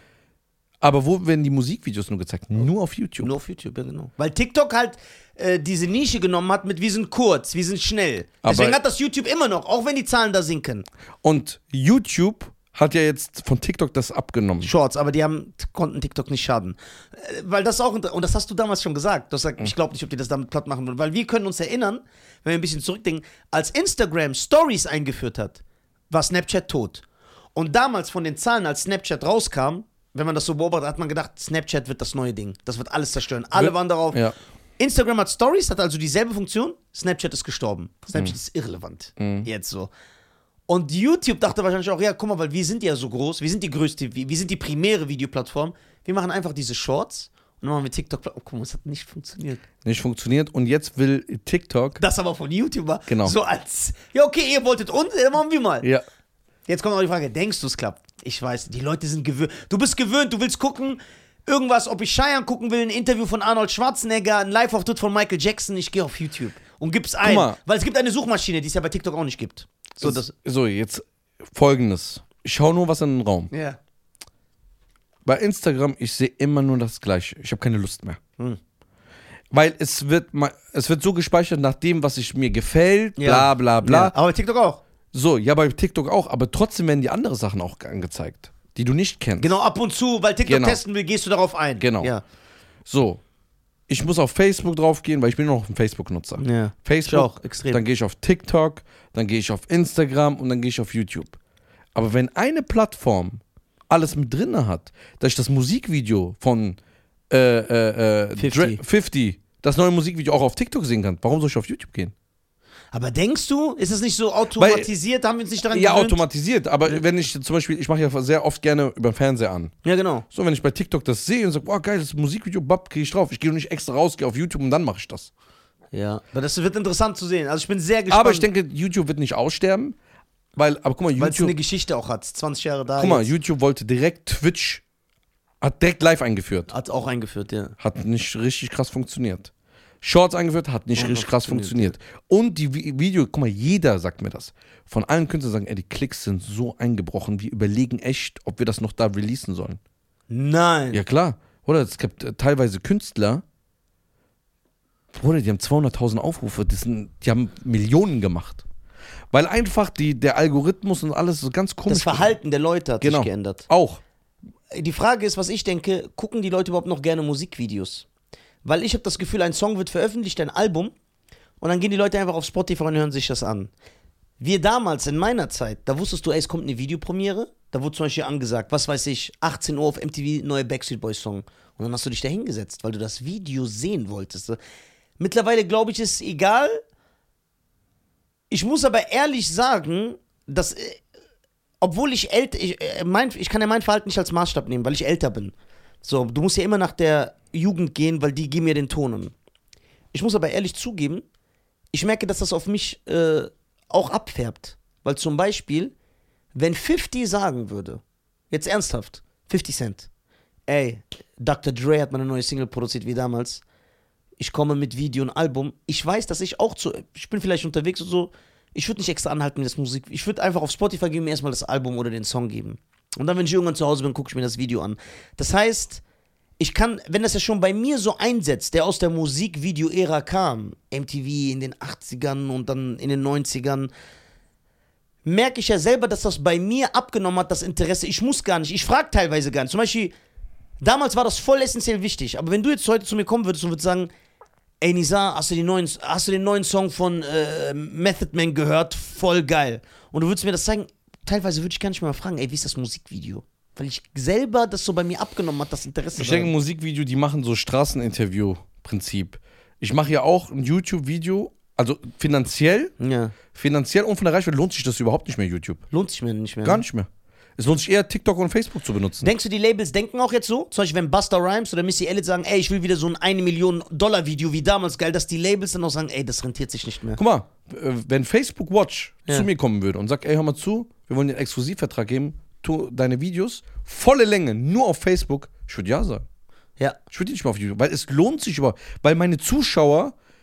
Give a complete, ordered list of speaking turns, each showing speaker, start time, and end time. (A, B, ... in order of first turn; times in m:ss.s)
0:00.8-0:03.3 A
0:03.2-0:10.8 B
0:08.4-0:08.8 A
0:11.2-0:14.7 A
0:14.6-0:27.0 B
0:27.5-0:34.2 B
0:33.5-0:34.3 A
0:34.8-0:39.9 B
0:39.2-0:39.5 A
0:40.7-0:49.6 B
0:49.8-0:52.0 A
0:52.0-0:55.9 B
0:53.1-0:53.3 A
0:56.7-1:10.3 B
1:07.2-1:07.6 A
1:10.0-1:13.5 A
1:13.5-1:13.8 B
1:15.2-1:18.2 A
1:19.5-1:24.1 A
1:23.2-1:24.8 B
1:25.1-1:29.5 A
1:29.4-1:32.2 B
1:30.4-1:30.8 A
1:31.8-1:32.1 A
1:32.9-1:33.2 A
1:33.9-1:41.4 A
1:36.4-1:37.8 B
1:41.9-1:46.8 A
1:47.3-1:52.1 A
1:48.4-1:48.8 B
1:52.9-1:56.2 B
1:54.6-1:54.9 A
1:55.7-1:59.7 A
1:59.8-2:00.2 B
2:00.3-2:05.3 A
2:05.9-2:08.5 B
2:08.1-2:10.0 A
2:10.6-2:11.5 A
2:11.2-2:13.3 B
2:13.0-2:14.8 A
2:15.6-2:16.7 A
2:16.7-2:17.7 B
2:17.8-2:19.5 A
2:20.0-2:29.8 A
2:20.9-2:21.9 B
2:30.3-2:31.0 B
2:30.9-2:33.4 A
2:35.1-2:38.6 A
2:39.3-2:42.4 A
2:41.9-2:43.6 B
2:43.0-2:44.0 A
2:44.7-2:48.1 B
2:48.6-2:50.9 B
2:51.6-2:53.7 B
2:54.4-3:04.6 B
3:05.2-3:06.8 B
3:08.5-3:11.0 B
3:11.8-3:19.3 B
3:20.1-3:21.2 B
3:21.9-3:25.9 B
3:26.5-3:30.1 B
3:30.7-3:33.6 B
3:34.4-3:46.0 B
3:46.6-3:53.9 B
3:55.2-4:00.1 B
4:00.8-4:04.1 B
4:04.8-4:16.5 B
4:16.2-4:22.9 A
4:23.0-4:23.3 B
4:23.5-4:25.8 A
4:25.9-4:26.8 B
4:26.6-4:29.3 A
4:29.2-4:37.2 B
4:37.2-4:46.2 A
4:47.1-4:50.1 A